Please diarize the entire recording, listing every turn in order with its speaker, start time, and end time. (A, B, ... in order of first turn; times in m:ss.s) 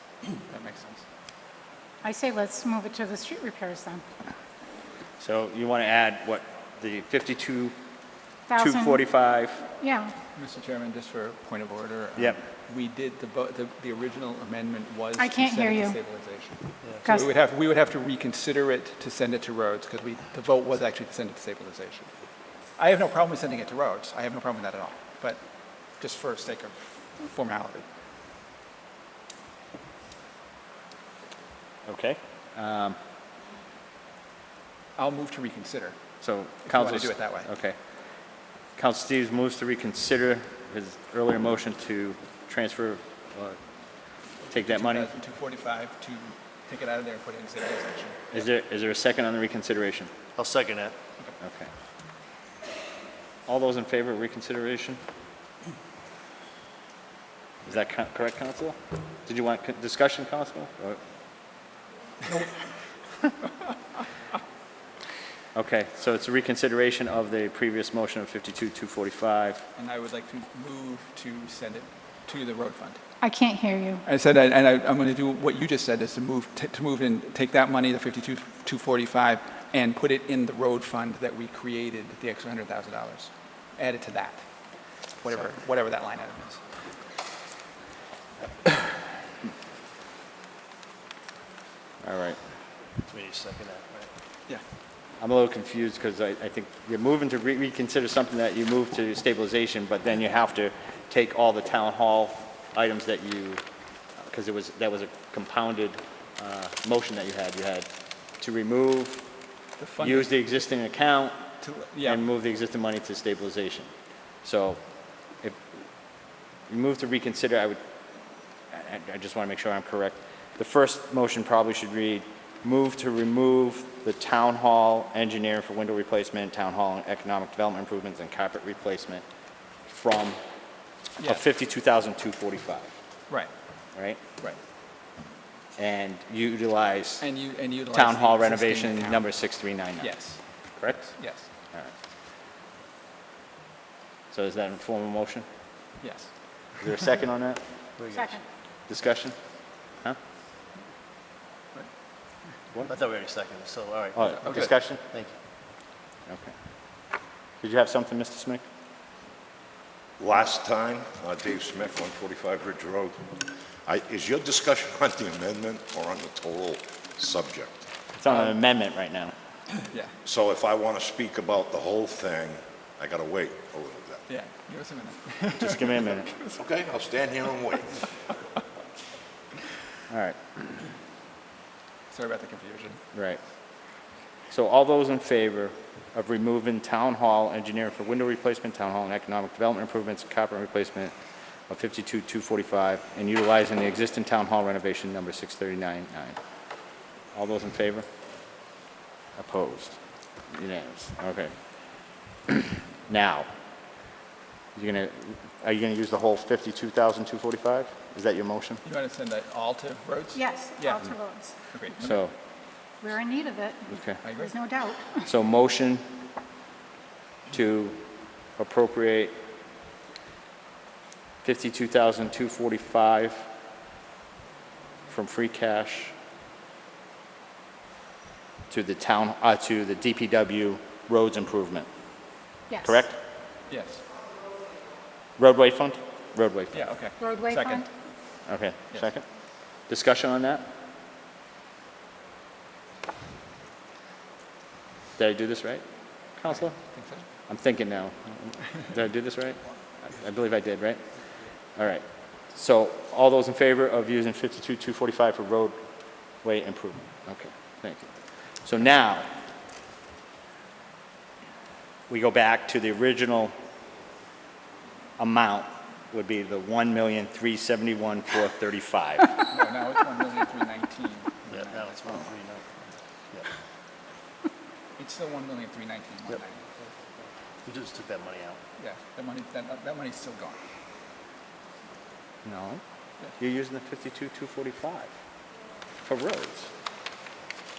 0:00.5-0:01.0 A
0:02.0-0:04.0 B
0:05.2-0:07.7 C
0:08.5-0:09.0 B
0:08.6-0:09.6 C
0:09.8-0:10.1 B
0:10.4-0:22.1 A
0:15.2-0:15.9 B
0:22.8-0:25.4 A
0:26.0-0:27.8 A
0:31.9-0:33.0 C
0:35.0-0:36.0 A
0:36.2-0:37.8 C
0:36.6-0:37.5 A
0:38.8-0:43.6 C
0:44.5-0:48.2 A
0:44.5-0:45.1 C
0:48.3-0:50.1 C
0:50.4-0:51.0 D
0:51.4-0:51.7 C
0:53.5-0:55.0 C
0:57.6-1:01.0 C
1:05.5-1:09.6 C
1:09.8-1:13.0 A
1:13.2-1:14.0 B
1:14.0-1:24.4 A
1:25.2-1:26.6 A
1:32.0-1:32.4 C
1:33.1-1:34.1 D
1:35.2-1:43.6 C
1:44.2-1:47.9 C
1:48.4-1:49.2 C
1:49.8-1:50.3 A
1:50.0-1:51.4 C
1:51.6-1:52.2 A
1:52.0-1:53.9 C
1:54.4-1:55.6 C
1:56.7-1:57.8 C
1:58.7-2:09.2 C
2:09.9-2:10.4 C
2:11.2-2:12.9 C
2:15.8-2:17.2 C
2:17.2-2:19.2 A
2:17.9-2:20.1 C
2:20.0-2:20.4 A
2:20.8-2:21.1 C
2:20.9-2:21.5 A
2:24.3-2:25.4 C
2:26.0-2:26.3 A
2:26.8-2:27.6 C
2:28.0-2:28.4 D
2:28.9-2:29.4 C
2:32.8-2:35.3 D
2:34.1-2:35.0 C
2:36.3-2:36.5 C
2:37.6-2:38.6 C
2:40.2-2:47.9 E
2:48.2-2:49.3 C
2:49.8-2:50.1 A
2:50.2-2:54.2 E
2:54.3-2:56.6 A
2:55.6-2:56.3 C
2:56.5-2:58.0 E
3:00.1-3:00.8 C
3:02.1-3:03.0 A
3:03.1-3:03.4 C
3:04.5-3:11.1 C
3:11.7-3:16.4 C
3:17.3-3:18.0 C
3:19.4-3:20.0 C
3:20.5-3:21.5 C
3:22.5-3:23.5 C
3:24.7-3:28.8 C
3:28.8-3:31.1 A
3:30.3-3:31.5 B
3:31.7-3:32.1 A
3:32.0-3:32.3 C
3:33.0-3:35.2 B
3:33.9-3:34.2 C
3:34.2-3:34.5 A
3:35.2-3:36.0 C
3:37.5-3:38.0 C
3:38.5-3:39.3 C
3:41.4-3:43.4 C
3:45.1-3:46.1 C
3:48.7-3:51.9 C
3:52.8-3:53.2 C
3:53.7-3:54.0 A
3:55.4-3:56.8 C
3:56.7-3:57.8 A
3:57.2-3:57.9 B
3:58.5-3:59.2 C
3:59.9-4:00.7 C
4:05.2-4:06.8 C
4:06.5-4:07.2 A
4:07.5-4:11.0 C
4:11.8-4:15.8 C
4:16.4-4:18.1 C
4:18.6-4:19.3 C
4:22.1-4:23.5 C
4:25.2-4:29.4 C
4:29.5-4:31.9 A
4:31.5-4:32.8 D
4:35.0-4:36.6 A
4:37.6-4:38.6 D
4:38.8-4:40.6 A
4:42.4-4:42.8 C
4:43.4-4:45.1 C
4:46.0-4:46.7 C